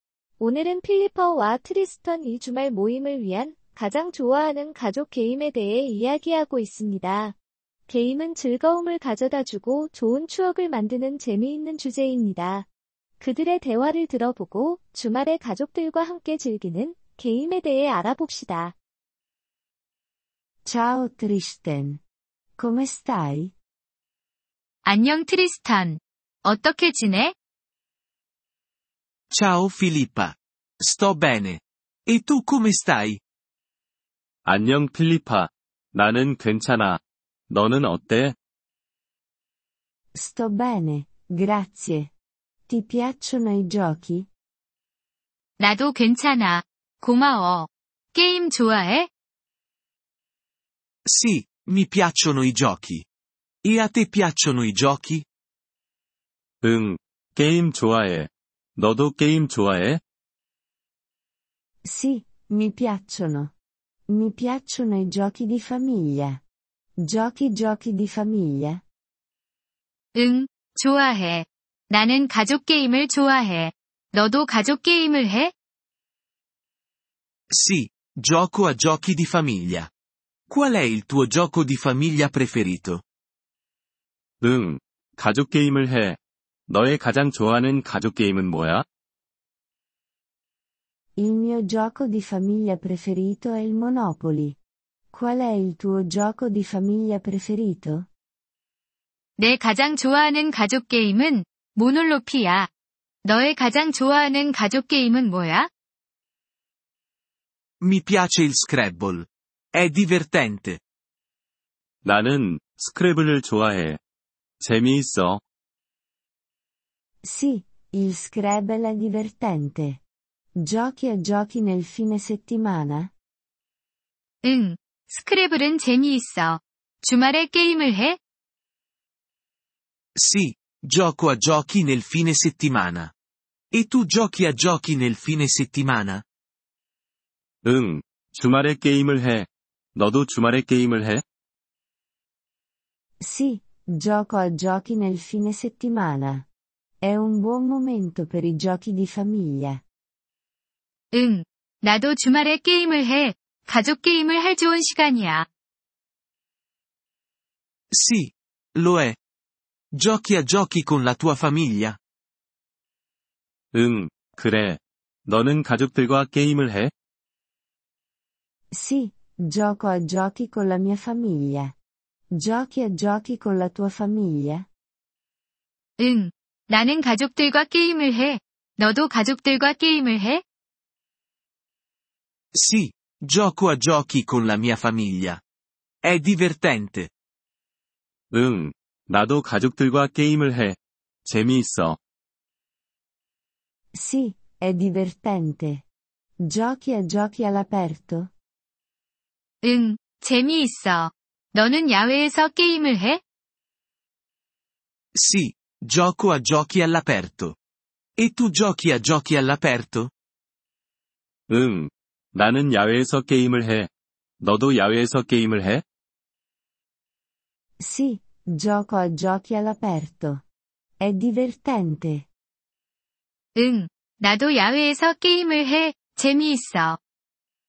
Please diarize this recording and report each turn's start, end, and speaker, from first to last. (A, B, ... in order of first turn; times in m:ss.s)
0:00.4-0:07.4 A
0:07.9-0:12.7 A
0:13.2-0:18.8 A
0:20.6-0:22.0 B
0:22.6-0:23.5 B
0:24.8-0:27.3 C
0:29.3-0:33.2 D
0:34.4-0:38.3 E
0:40.1-0:42.1 B
0:42.7-0:44.3 B
0:45.6-0:49.1 C
0:51.0-0:53.0 D
0:53.6-0:55.2 D
0:56.6-1:00.0 E
1:01.8-1:03.5 B
1:04.1-1:06.4 B
1:07.0-1:08.8 B
1:10.1-1:15.5 C
1:17.5-1:19.9 D
1:20.5-1:23.0 D
1:24.4-1:28.8 E
1:31.2-1:34.6 B
1:35.1-1:38.1 B
1:39.4-1:42.7 C
1:43.2-1:45.7 C
1:47.8-1:50.8 D
1:52.0-1:54.0 E
1:54.6-1:55.4 E
1:57.2-2:00.0 B
2:00.6-2:03.1 B
2:04.4-2:08.2 C
2:10.2-2:13.1 D
2:13.7-2:16.2 D
2:17.6-2:21.2 E
2:23.2-2:26.5 B
2:27.0-2:29.8 B
2:31.1-2:35.4 C
2:37.9-2:39.2 D
2:39.9-2:42.0 D
2:43.7-2:46.9 E
2:48.7-2:51.8 B
2:52.3-2:54.7 B
2:56.0-3:00.4 C
3:02.5-3:05.4 D
3:06.0-3:07.1 D
3:08.3-3:12.0 E
3:13.9-3:15.8 B
3:16.4-3:18.3 B
3:19.6-3:23.2 C
3:25.1-3:27.6 D
3:28.2-3:30.1 D
3:31.5-3:33.9 E
3:34.4-3:35.8 E
3:37.8-3:40.4 B
3:41.0-3:42.3 B
3:43.6-3:47.0 C